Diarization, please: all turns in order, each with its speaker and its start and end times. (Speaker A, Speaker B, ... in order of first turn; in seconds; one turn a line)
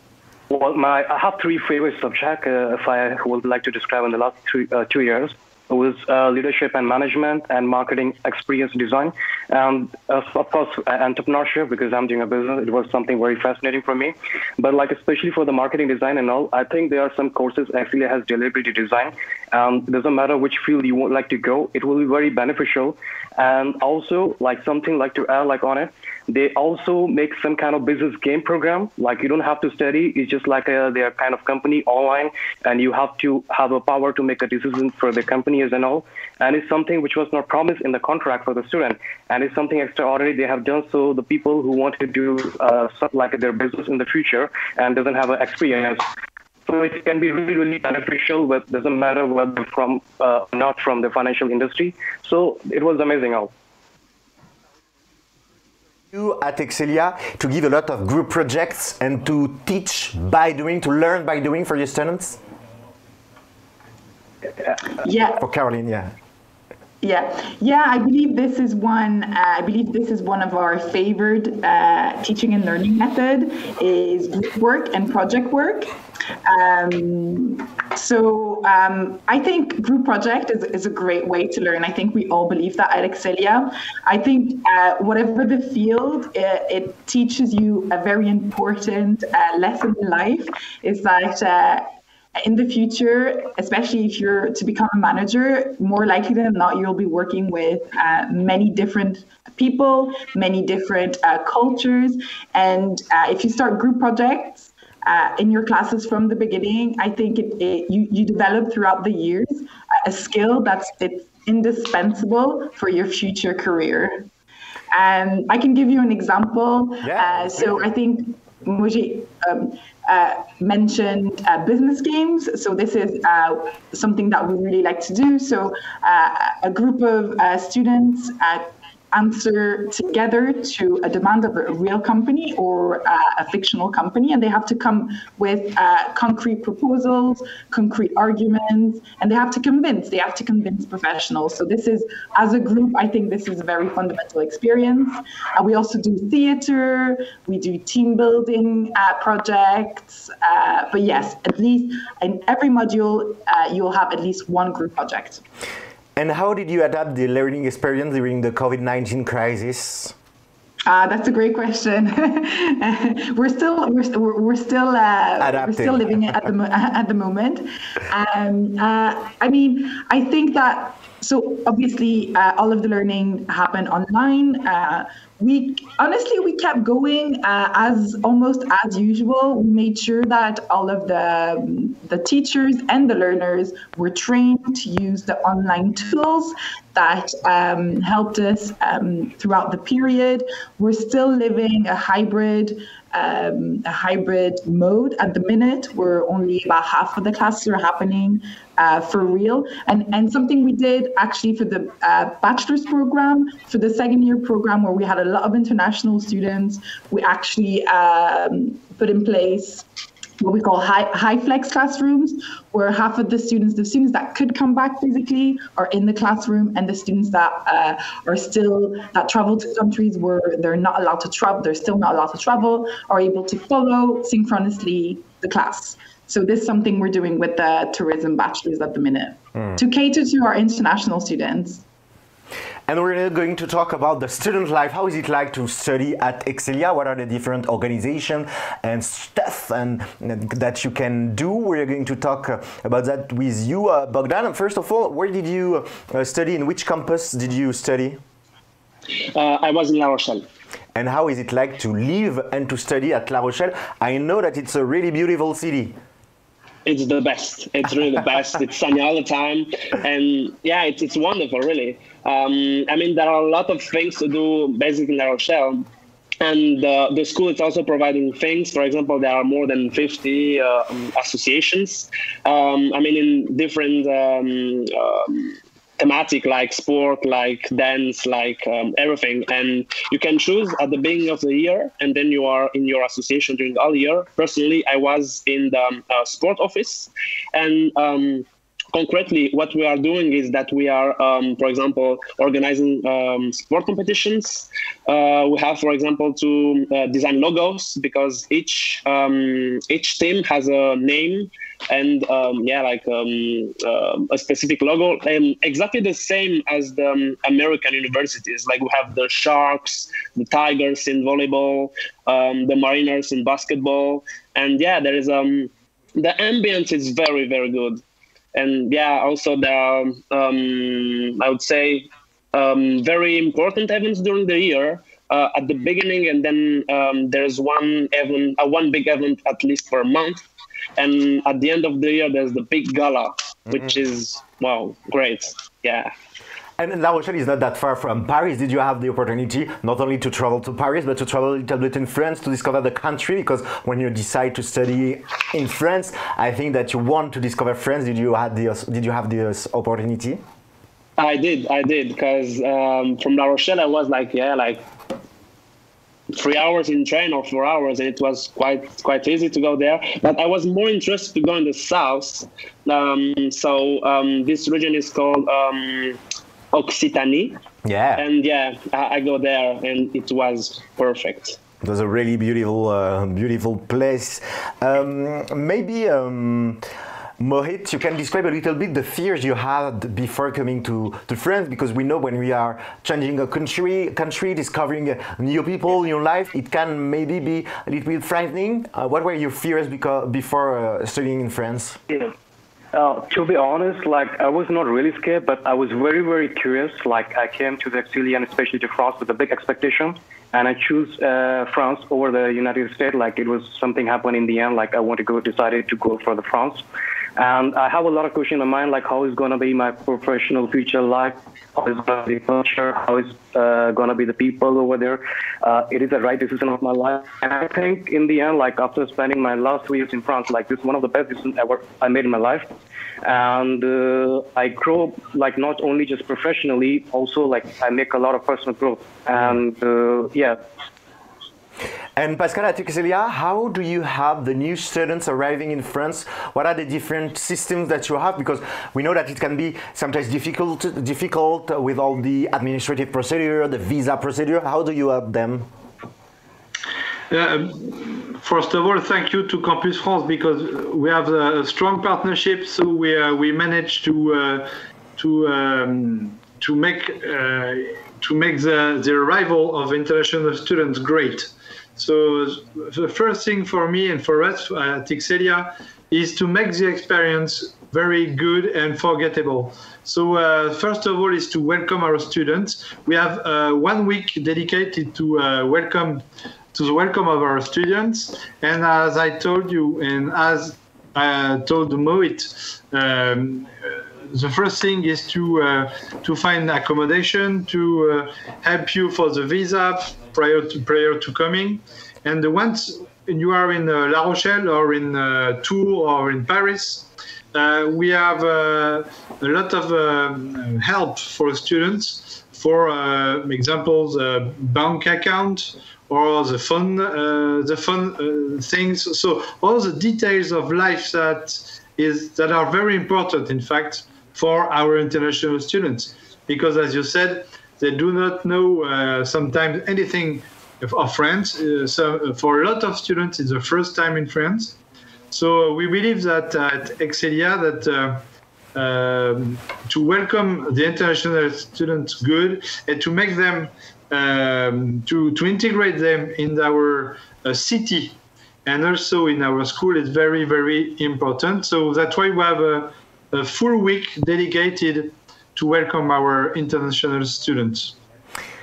Speaker A: 0.5-46.0
Speaker A: 46.6-53.5
Speaker B: 56.1-62.4
Speaker C: 65.0-65.4
Speaker B: 65.4-66.1
Speaker C: 67.0-114.3
Speaker C: 114.9-155.4
Speaker B: 117.0-117.7
Speaker B: 156.2-160.1
Speaker C: 160.9-209.8
Speaker B: 165.4-166.1
Speaker C: 210.4-231.8
Speaker B: 232.9-248.2
Speaker D: 249.3-250.4
Speaker B: 250.9-256.0
Speaker D: 256.9-265.9
Speaker D: 266.4-318.0
Speaker D: 318.6-330.4
Speaker D: 331.0-336.1
Speaker B: 336.8-350.4
Speaker D: 351.2-354.9
Speaker D: 356.3-366.2
Speaker D: 366.7-367.6
Speaker B: 367.9-368.2
Speaker D: 368.1-371.6
Speaker B: 371.8-376.8
Speaker B: 377.4-392.0
Speaker A: 392.9-406.9
Speaker A: 407.4-422.6
Speaker A: 423.2-430.6
Speaker B: 432.1-445.7
Speaker E: 447.3-476.2
Speaker E: 476.7-524.8
Speaker E: 525.3-547.9